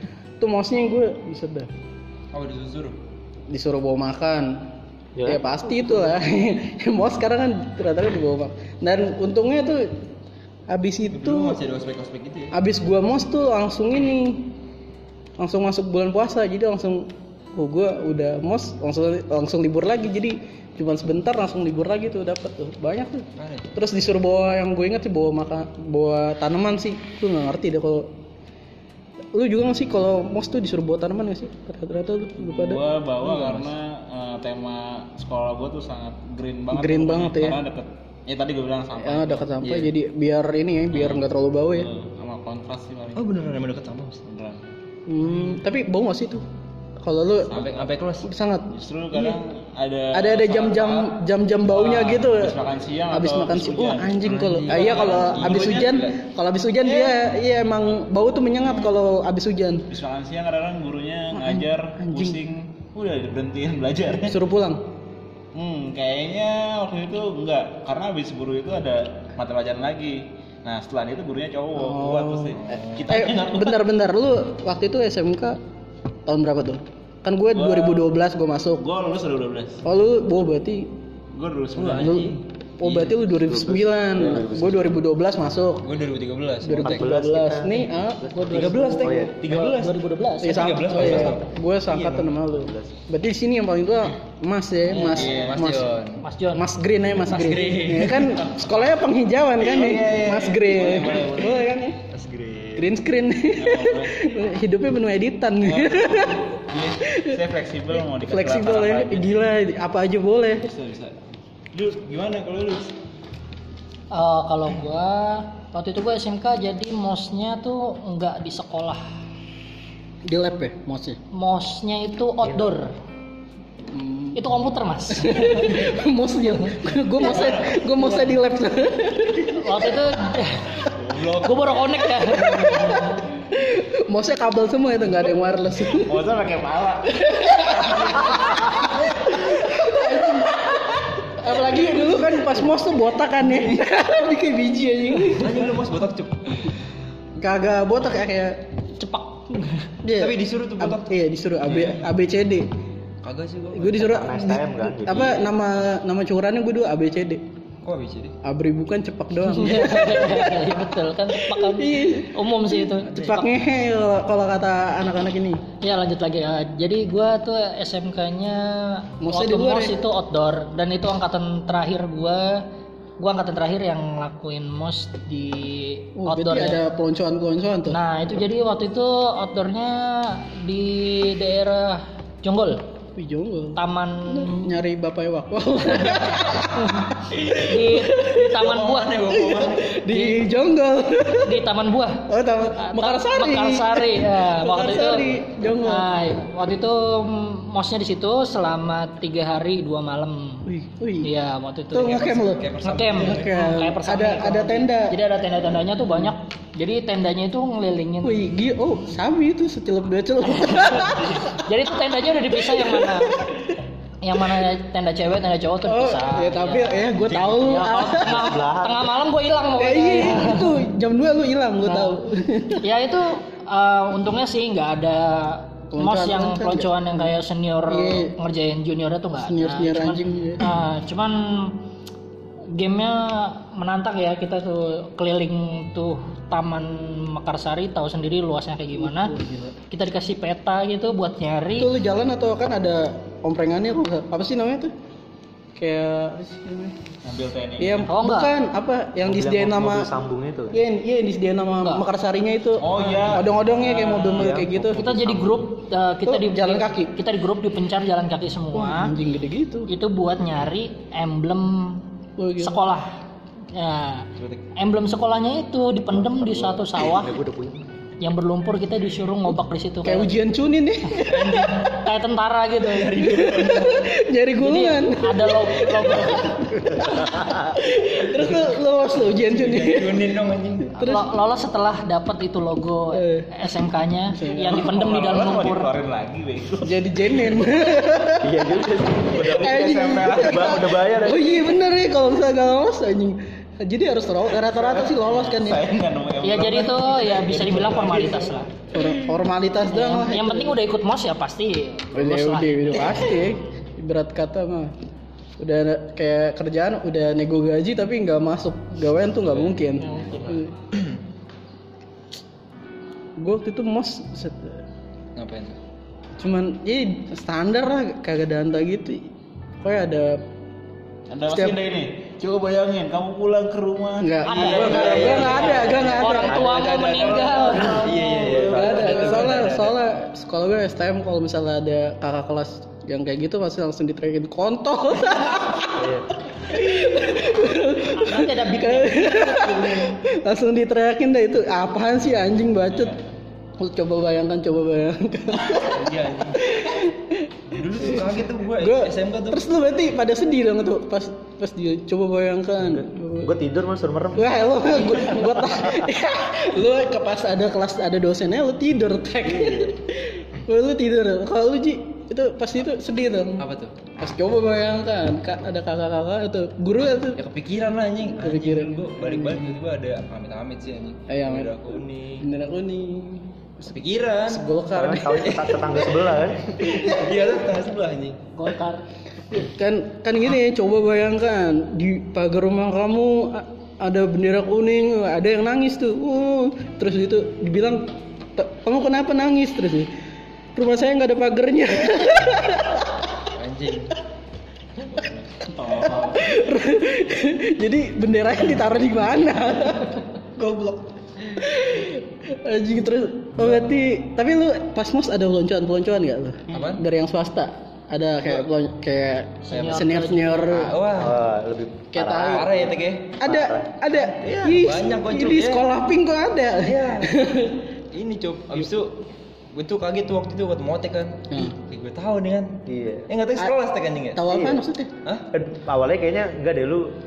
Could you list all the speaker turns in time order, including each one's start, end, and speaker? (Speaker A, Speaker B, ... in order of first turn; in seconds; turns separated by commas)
Speaker A: 0.4-1.7, Speaker B: 2.3-3.0, Speaker A: 3.5-4.7, Speaker C: 5.2-5.4, Speaker A: 5.2-10.0, Speaker A: 10.7-11.6, Speaker B: 11.1-12.6, Speaker A: 12.5-14.5, Speaker A: 15.4-28.1, Speaker B: 23.4-23.7, Speaker A: 29.3-32.8, Speaker D: 32.4-39.9, Speaker A: 36.7-37.6, Speaker A: 39.0-41.9, Speaker D: 40.9-43.3, Speaker B: 43.1-44.2, Speaker D: 44.2-44.6, Speaker A: 45.1-46.5, Speaker D: 45.2-45.6, Speaker A: 47.0-47.6, Speaker D: 47.5-47.9, Speaker B: 47.5-48.3, Speaker A: 48.2-49.4, Speaker D: 48.7-56.1, Speaker A: 50.1-52.6, Speaker A: 53.1-59.9, Speaker B: 54.2-56.2, Speaker D: 56.8-57.2, Speaker D: 59.9-64.4, Speaker A: 61.3-62.4, Speaker A: 64.2-64.8, Speaker D: 65.5-73.8, Speaker A: 71.7-75.6, Speaker B: 72.6-73.1, Speaker A: 76.2-78.8, Speaker D: 77.5-78.1, Speaker D: 78.8-79.8, Speaker A: 79.8-80.9, Speaker D: 81.3-82.3, Speaker B: 81.8-83.2, Speaker A: 82.0-85.9, Speaker C: 83.3-85.0, Speaker B: 85.8-87.2, Speaker A: 86.6-89.1, Speaker C: 86.8-88.5, Speaker E: 88.3-90.7, Speaker B: 88.5-92.4, Speaker C: 89.0-89.4, Speaker A: 90.4-95.9, Speaker C: 91.0-91.3, Speaker C: 92.5-92.9, Speaker B: 94.9-96.2, Speaker D: 94.9-95.6, Speaker E: 96.2-96.7, Speaker A: 96.5-102.0, Speaker B: 97.2-98.4, Speaker D: 99.6-101.7, Speaker B: 102.1-102.9, Speaker A: 102.8-106.5, Speaker D: 103.6-104.2, Speaker D: 105.6-109.3, Speaker A: 107.0-107.4, Speaker A: 108.2-110.7, Speaker D: 110.6-111.1, Speaker D: 111.7-112.8, Speaker B: 111.9-112.9, Speaker E: 114.1-119.0, Speaker A: 120.2-121.2, Speaker E: 121.3-122.9, Speaker C: 122.4-122.8, Speaker A: 123.9-124.4, Speaker E: 124.3-125.9, Speaker A: 125.1-129.9, Speaker E: 126.5-127.5, Speaker B: 127.2-128.0, Speaker E: 129.6-133.3, Speaker D: 130.9-131.9, Speaker A: 132.3-136.2, Speaker D: 135.9-137.2, Speaker A: 137.1-145.8, Speaker D: 137.8-138.9, Speaker B: 145.3-146.7, Speaker A: 147.4-149.1, Speaker E: 149.0-149.7, Speaker A: 150.0-152.7, Speaker B: 150.1-151.2, Speaker B: 153.2-154.6, Speaker A: 153.7-157.4, Speaker C: 154.1-155.5, Speaker B: 157.8-158.4, Speaker A: 158.4-165.6, Speaker E: 159.4-163.5, Speaker B: 163.1-163.5, Speaker E: 165.8-172.6, Speaker A: 169.2-170.0, Speaker E: 173.2-176.8, Speaker A: 176.2-178.0, Speaker E: 177.9-182.8, Speaker A: 183.2-188.5, Speaker E: 183.8-184.7, Speaker E: 186.1-189.3, Speaker B: 188.5-190.0, Speaker A: 189.3-191.7, Speaker E: 190.1-190.4, Speaker E: 191.4-200.7, Speaker A: 192.2-196.1, Speaker A: 200.7-201.3, Speaker E: 201.2-202.3, Speaker A: 201.9-205.2, Speaker B: 202.0-203.5, Speaker E: 202.8-208.4, Speaker A: 208.2-211.6, Speaker E: 210.5-213.5, Speaker B: 211.1-211.4, Speaker A: 212.5-213.7, Speaker E: 214.2-220.8, Speaker A: 215.8-218.6, Speaker B: 217.2-217.7, Speaker C: 218.1-219.2, Speaker A: 219.8-222.9, Speaker E: 221.8-222.2, Speaker E: 222.8-231.8, Speaker A: 225.9-227.3, Speaker A: 227.9-228.3, Speaker A: 229.4-230.7, Speaker E: 232.7-239.3, Speaker A: 238.9-239.8, Speaker E: 239.9-241.9, Speaker A: 241.8-244.9, Speaker A: 245.8-247.1, Speaker D: 247.2-248.1, Speaker A: 247.8-250.1, Speaker E: 248.1-248.5, Speaker C: 249.2-250.8, Speaker A: 250.7-255.0, Speaker D: 252.8-254.6, Speaker C: 254.3-255.6, Speaker E: 254.9-259.1, Speaker A: 256.3-257.1, Speaker A: 258.7-259.9, Speaker E: 259.9-262.1, Speaker A: 262.4-262.8, Speaker E: 262.6-263.2, Speaker E: 263.7-267.4, Speaker C: 266.1-267.9, Speaker E: 268.2-270.3, Speaker A: 270.0-271.9, Speaker B: 271.2-272.0, Speaker E: 271.7-273.6, Speaker B: 272.8-274.1, Speaker A: 273.1-280.3, Speaker E: 274.6-276.7, Speaker C: 276.8-277.8, Speaker B: 279.4-280.9, Speaker A: 280.9-281.3, Speaker E: 281.0-285.9, Speaker A: 283.1-283.5, Speaker A: 284.3-284.9, Speaker D: 284.5-287.7, Speaker A: 286.8-288.9, Speaker C: 288.4-291.7, Speaker D: 289.3-290.9, Speaker A: 289.6-295.9, Speaker D: 294.6-299.4, Speaker E: 296.4-298.7, Speaker A: 298.9-300.8, Speaker E: 299.8-303.3, Speaker A: 302.1-304.9, Speaker A: 305.6-310.7, Speaker B: 310.9-311.2, Speaker A: 313.4-314.8, Speaker B: 315.4-315.8, Speaker A: 316.4-320.4, Speaker D: 321.3-326.2, Speaker A: 321.5-321.8, Speaker A: 324.2-326.6, Speaker E: 324.4-328.5, Speaker B: 324.6-326.4, Speaker C: 326.5-329.6, Speaker D: 326.8-327.9, Speaker B: 327.8-330.0, Speaker A: 328.7-343.1, Speaker C: 335.9-336.2, Speaker E: 338.0-340.2, Speaker D: 342.9-343.2, Speaker A: 343.8-353.5, Speaker B: 345.9-346.7, Speaker B: 347.7-349.6, Speaker C: 352.8-356.1, Speaker A: 354.3-363.6, Speaker B: 363.6-363.9, Speaker A: 364.2-367.4, Speaker B: 367.4-372.5, Speaker A: 368.4-369.7, Speaker A: 371.3-375.9, Speaker B: 373.9-374.7, Speaker C: 374.9-377.1, Speaker B: 375.4-378.4, Speaker E: 378.5-379.0, Speaker A: 379.5-390.1, Speaker A: 390.7-393.3, Speaker B: 393.5-394.1, Speaker D: 395.1-396.6, Speaker A: 395.8-411.0, Speaker B: 406.7-407.0, Speaker E: 409.6-410.9, Speaker B: 409.7-410.1, Speaker B: 410.7-411.4, Speaker C: 411.0-412.9, Speaker A: 412.1-412.6, Speaker B: 412.4-413.4, Speaker A: 413.4-417.8, Speaker C: 413.4-413.9, Speaker B: 414.1-415.9, Speaker D: 414.4-414.7, Speaker B: 416.8-417.4, Speaker B: 418.1-419.2, Speaker B: 419.7-424.5, Speaker A: 421.5-421.8, Speaker C: 422.9-423.3, Speaker A: 424.3-425.1, Speaker C: 424.5-424.8, Speaker C: 425.5-427.1